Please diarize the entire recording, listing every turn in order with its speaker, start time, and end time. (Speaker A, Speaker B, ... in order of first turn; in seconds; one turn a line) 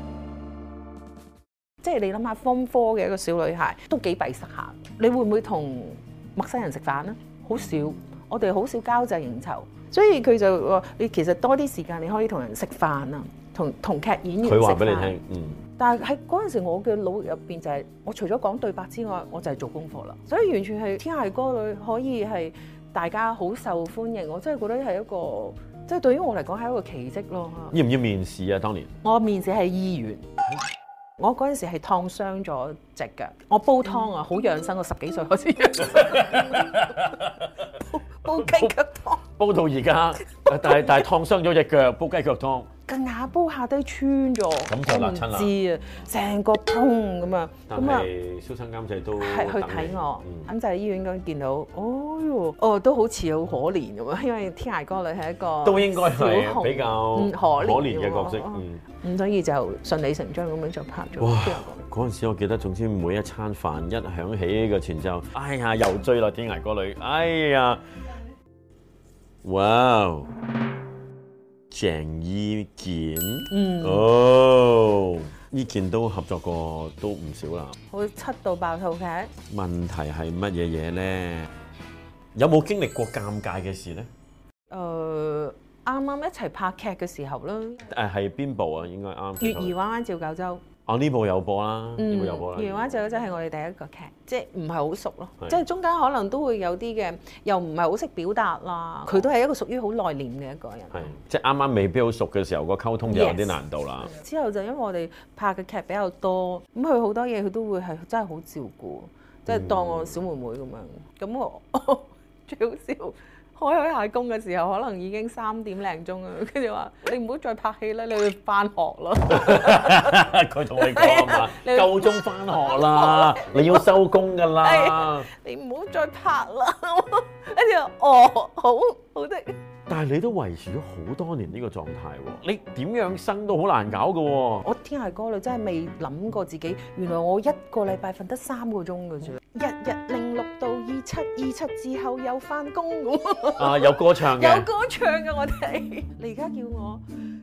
Speaker A: 1.8-15.2
Speaker B: 14.4-15.6
Speaker A: 15.8-27.8
Speaker B: 27.7-28.9
Speaker A: 29.0-30.2
Speaker A: 31.2-36.7
Speaker B: 35.8-37.7
Speaker A: 37.8-39.2
Speaker B: 38.3-38.8
Speaker B: 39.3-42.7
Speaker A: 40.3-41.0
Speaker A: 42.9-48.1
Speaker B: 44.7-45.5
Speaker B: 47.7-50.5
Speaker A: 49.2-61.8
Speaker B: 55.6-58.8
Speaker B: 61.2-67.8
Speaker B: 69.4-70.3
Speaker B: 71.7-77.8
Speaker A: 73.5-74.1
Speaker A: 77.9-79.3
Speaker B: 79.5-81.5
Speaker B: 82.3-84.1
Speaker A: 84.7-87.8
Speaker B: 87.8-89.8
Speaker A: 89.4-90.6
Speaker B: 90.9-93.0
Speaker A: 92.0-101.1
Speaker B: 100.9-104.1
Speaker A: 103.1-120.2
Speaker B: 109.5-110.2
Speaker B: 119.3-125.3
Speaker A: 120.8-123.9
Speaker A: 124.6-129.6
Speaker B: 129.9-134.7
Speaker A: 134.6-147.0
Speaker B: 143.6-144.7